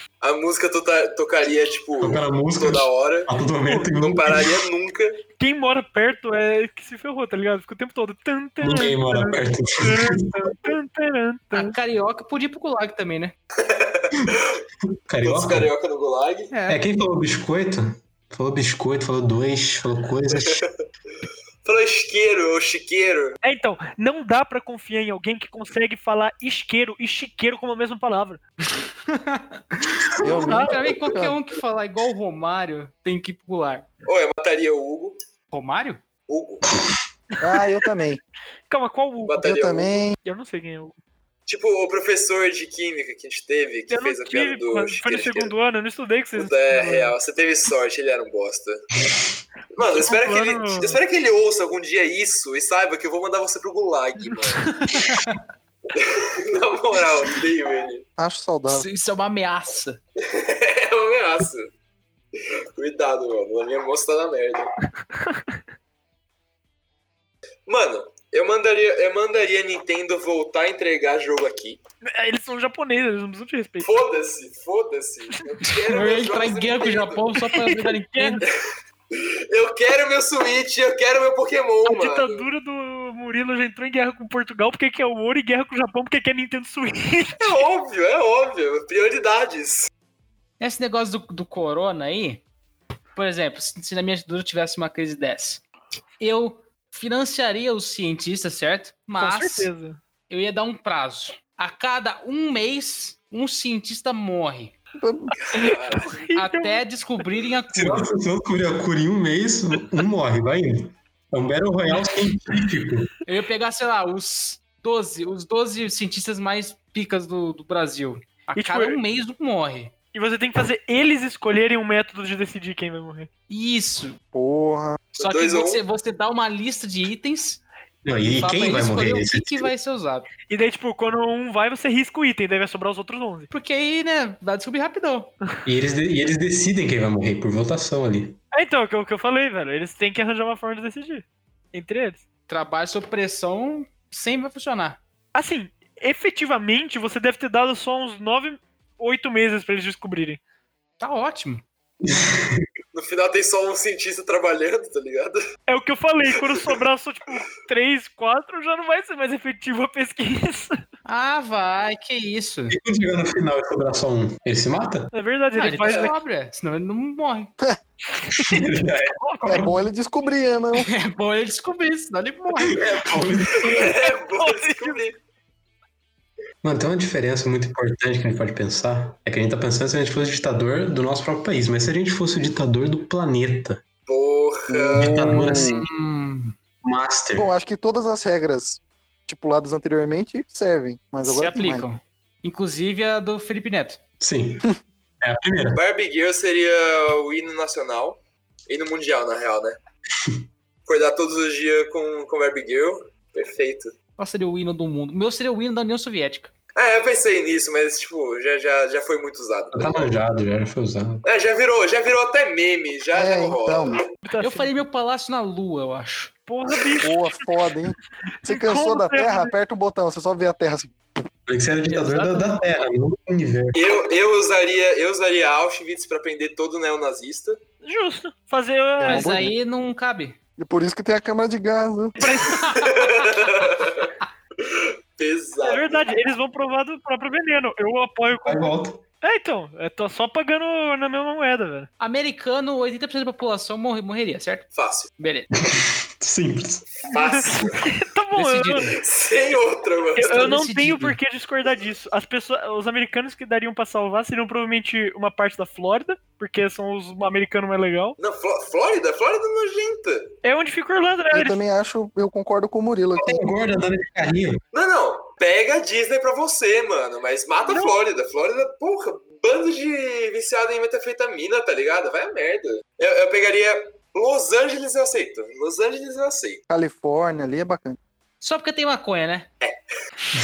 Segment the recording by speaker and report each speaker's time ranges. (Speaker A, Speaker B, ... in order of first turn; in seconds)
Speaker A: 0.2-5.2, 13.6-14.6, 15.2-16.5, 20.3-20.7, 21.6-23.4, 34.0-35.2, 36.3-36.7, 39.2-40.0, 41.5-45.5, 46.3-48.8, 49.7-54.7, 55.9-58.0, 60.2-61.7, 62.3-64.7, 67.7-71.8, 73.8-77.3, 79.1-82.5, 87.4-89.9, 105.5-106.2, 125.2-125.8, 152.9-155.4, 173.6-175.2, 184.1-185.2, 195.7-199.8, 200.8-203.9, 206.8-210.2, 211.2-214.1, 223.7-227.6, 232.2-234.1, 234.6-236.1, 244.8-245.1, 247.1-247.9, 248.9-250.5, 258.2-260.3, 264.7-276.6
Speaker B: 2.0-4.5, 8.6-10.5, 15.1-15.7, 16.7-20.6, 107.7-113.1, 128.0-129.7, 135.7-138.4, 152.0-152.6, 162.7-165.1, 168.3-169.8, 172.6-173.9, 176.6-183.8, 184.9-185.9, 186.8-187.5, 194.2-195.8, 209.7-211.2, 221.5-223.8, 238.4-239.0, 245.6-247.1, 263.2-264.6
Speaker C: 5.4-11.7, 23.4-28.4, 30.3-30.7, 37.4-37.7, 38.7-39.4, 40.2-41.0, 43.9-47.1, 49.8-51.0, 54.6-55.2, 72.0-73.9, 77.5-78.4, 81.8-87.6, 99.2-100.0, 105.5-106.8, 118.5-119.0, 120.1-123.3, 130.5-133.5, 138.5-142.2, 145.3-150.4, 155.7-160.8, 165.1-166.2, 168.1-168.6, 174.0-175.0, 214.2-214.7, 216.5-217.4, 218.4-219.5, 227.8-229.4, 232.2-233.4, 235.6-238.7, 239.2-241.9, 247.1-248.9, 250.2-258.2, 260.4-261.6, 267.6-267.9
Speaker D: 11.5-13.3, 16.5-16.8, 29.1-33.9, 35.5-36.0, 55.0-55.4, 58.7-60.0, 75.6-78.4, 90.6-92.4, 93.1-95.6, 96.2-99.7, 100.3-104.7, 106.3-108.1, 113.2-119.9, 123.5-124.2, 125.2-127.6, 128.2-130.3, 133.5-135.3, 142.5-145.0, 151.0-151.6, 161.1-162.8, 165.6-167.5, 170.7-172.9, 185.2-186.5, 191.2-194.0, 204.2-206.5, 214.4-216.3, 221.9-222.6, 229.0-230.4, 242.0-245.5, 248.3-249.0, 250.2-251.2, 278.4-279.5
Speaker E: 30.2-31.4, 37.4-38.2, 39.4-40.1, 58.2-58.9, 104.9-105.3, 124.3-125.0, 169.4-170.9, 184.7-185.8, 187.3-191.9, 213.1-214.0, 217.0-221.0, 229.0-229.5, 230.6-232.1, 261.3-263.4, 276.7-278.0